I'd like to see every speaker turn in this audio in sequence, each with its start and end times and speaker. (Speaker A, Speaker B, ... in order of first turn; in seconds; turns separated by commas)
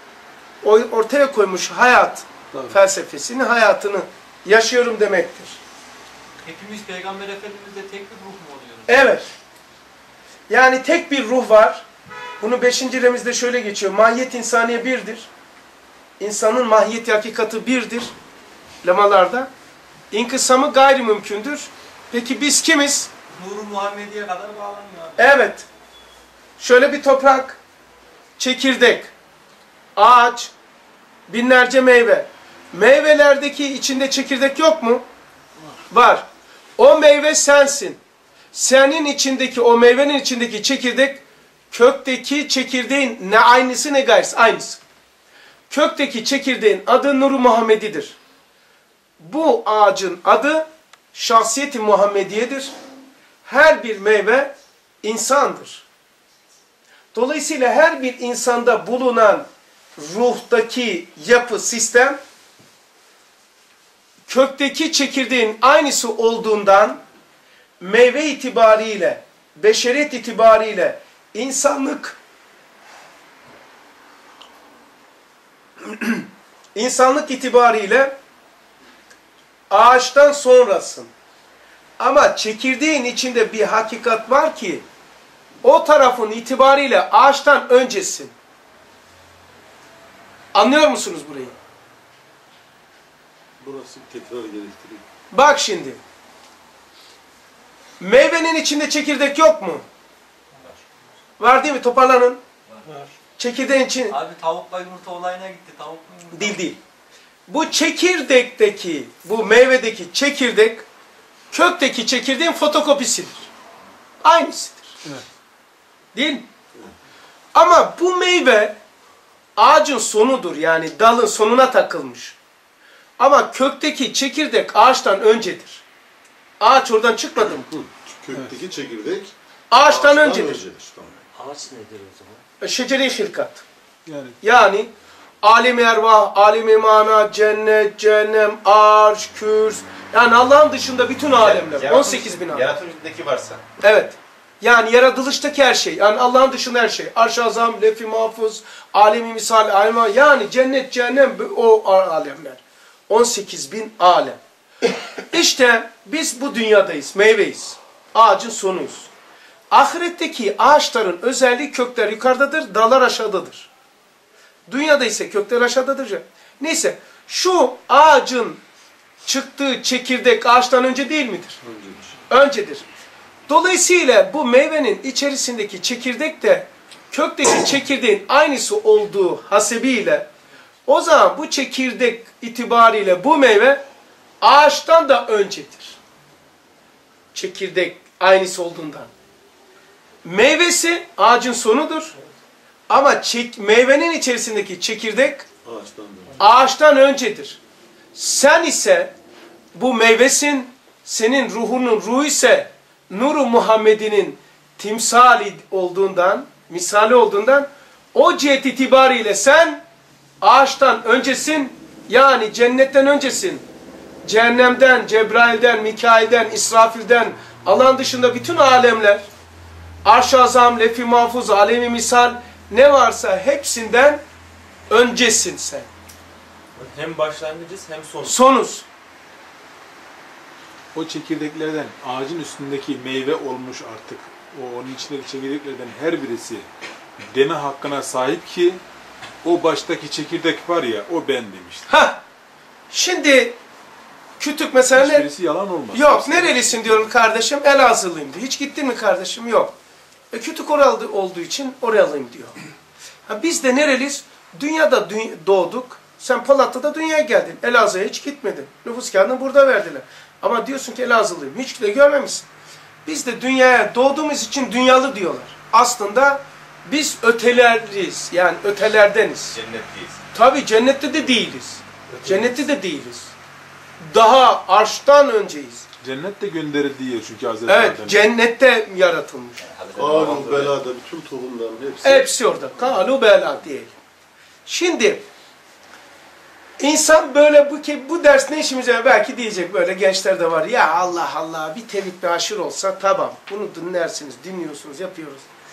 Speaker A: 0.6-5.6, Speaker B: 2.5-2.8, Speaker C: 6.4-9.2, Speaker A: 8.9-9.3, Speaker A: 10.5-11.8, Speaker A: 12.4-15.3, Speaker A: 16.2-18.1, Speaker A: 18.8-19.5, Speaker A: 20.1-23.1, Speaker C: 23.3-25.2, Speaker A: 25.2-25.7, Speaker A: 26.6-27.6, Speaker A: 28.4-29.1, Speaker A: 29.9-30.5, Speaker A: 31.3-35.0, Speaker A: 35.9-36.2, Speaker A: 36.8-38.0, Speaker A: 38.5-44.8, Speaker A: 45.7-48.2, Speaker A: 49.2-52.7, Speaker A: 53.4-55.9, Speaker A: 57.1-62.2, Speaker A: 64.3-67.0, Speaker A: 67.8-72.2, Speaker A: 75.8-78.2, Speaker A: 79.7-81.1, Speaker A: 82.0-84.8, Speaker A: 85.6-88.3, Speaker A: 90.5-91.5, Speaker D: 93.6-95.0, Speaker A: 95.3-96.0, Speaker A: 98.0-99.8, Speaker A: 101.4-102.4, Speaker C: 102.7-103.0, Speaker A: 103.4-104.2, Speaker C: 104.1-106.7, Speaker A: 106.3-106.8, Speaker A: 107.5-110.8, Speaker A: 111.5-113.5, Speaker A: 114.2-114.9, Speaker A: 116.1-116.5, Speaker A: 117.5-118.8, Speaker A: 119.6-122.3, Speaker A: 123.2-125.8, Speaker A: 126.6-127.7, Speaker D: 127.7-131.2, Speaker B: 128.3-128.6, Speaker A: 129.7-130.6, Speaker C: 131.3-132.4, Speaker A: 132.6-133.6, Speaker B: 134.1-134.4, Speaker A: 134.4-134.9, Speaker A: 135.4-142.7, Speaker E: 141.4-143.6, Speaker A: 143.8-154.4, Speaker A: 155.3-159.1, Speaker A: 159.7-163.7, Speaker A: 164.7-168.6, Speaker A: 169.2-171.6, Speaker D: 171.6-172.2, Speaker A: 172.3-172.8, Speaker A: 173.5-180.3, Speaker A: 180.9-183.8, Speaker A: 184.4-186.0, Speaker A: 187.3-189.1, Speaker A: 190.2-192.1, Speaker A: 192.9-195.5, Speaker D: 195.6-196.4, Speaker A: 196.4-197.6, Speaker A: 198.1-199.1, Speaker A: 199.7-209.8, Speaker A: 210.4-213.6, Speaker A: 214.2-219.2, Speaker A: 220.0-224.2, Speaker A: 224.9-225.9, Speaker C: 226.8-228.4, Speaker A: 228.2-228.8, Speaker B: 230.9-236.7, Speaker B: 237.3-238.8, Speaker B: 239.4-241.9, Speaker A: 241.9-242.2, Speaker A: 242.9-243.6, Speaker A: 244.4-245.3, Speaker B: 244.9-247.1, Speaker A: 245.9-249.7, Speaker A: 250.3-252.6, Speaker A: 253.3-262.4, Speaker A: 263.1-269.6, Speaker E: 269.5-270.2, Speaker A: 270.3-273.3, Speaker D: 272.1-272.5, Speaker A: 274.0-275.9, Speaker B: 276.0-278.2, Speaker A: 277.7-279.6, Speaker E: 279.6-280.7, Speaker D: 279.9-282.3, Speaker A: 282.0-283.9, Speaker A: 284.7-285.2, Speaker A: 286.8-295.5